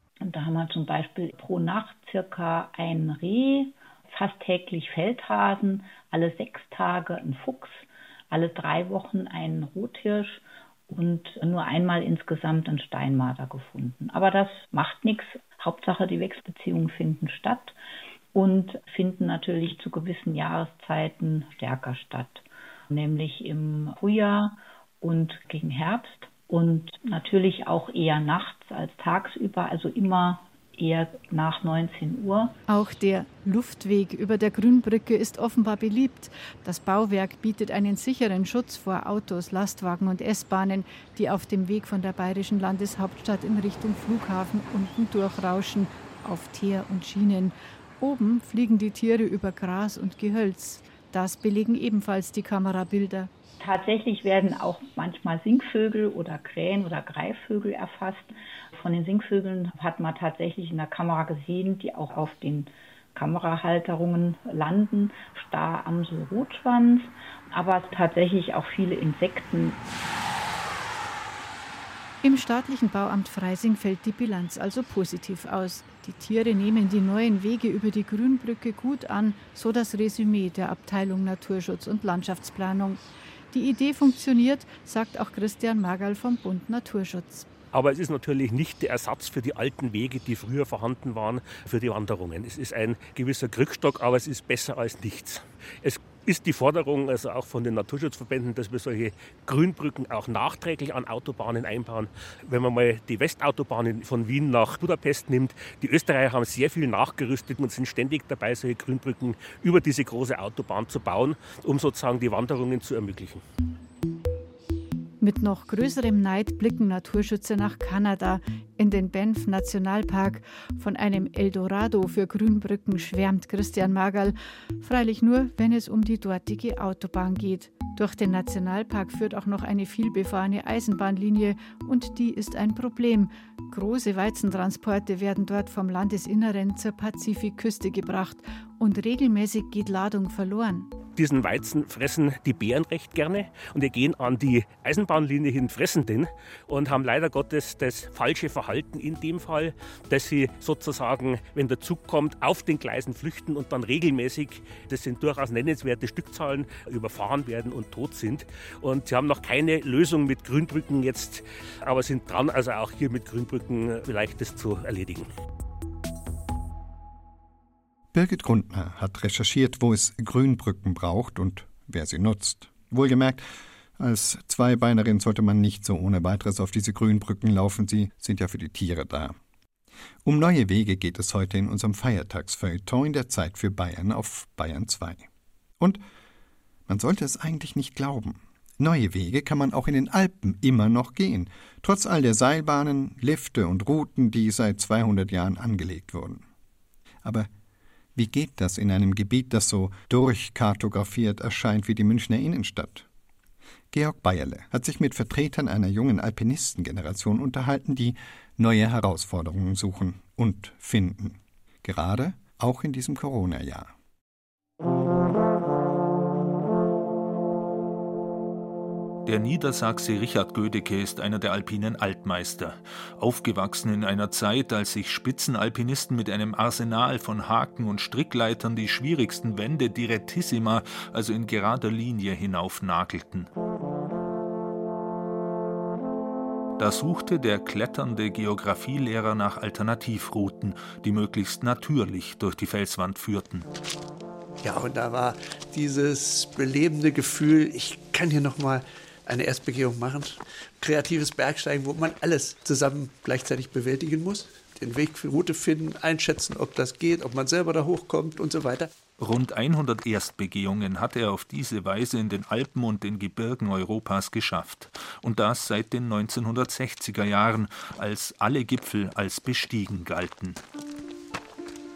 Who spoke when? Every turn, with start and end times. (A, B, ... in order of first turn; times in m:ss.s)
0:00.2-0:17.8 A
0:18.3-0:32.6 A
0:32.7-0:53.3 B
0:53.6-1:09.8 A
1:12.2-1:23.0 B
1:23.5-1:27.5 B
1:27.7-1:53.4 C
1:55.2-2:20.9 B
2:21.2-2:45.3 C
2:48.1-2:53.4 D
2:54.0-2:59.4 D
3:00.2-3:05.3 D
3:06.9-3:16.4 D
3:17.2-3:17.5 D
3:18.2-3:23.1 D
3:23.9-3:33.9 D
3:39.2-3:53.5 E
3:56.8-4:03.7 E
4:04.6-4:18.9 F
4:19.2-4:30.6 E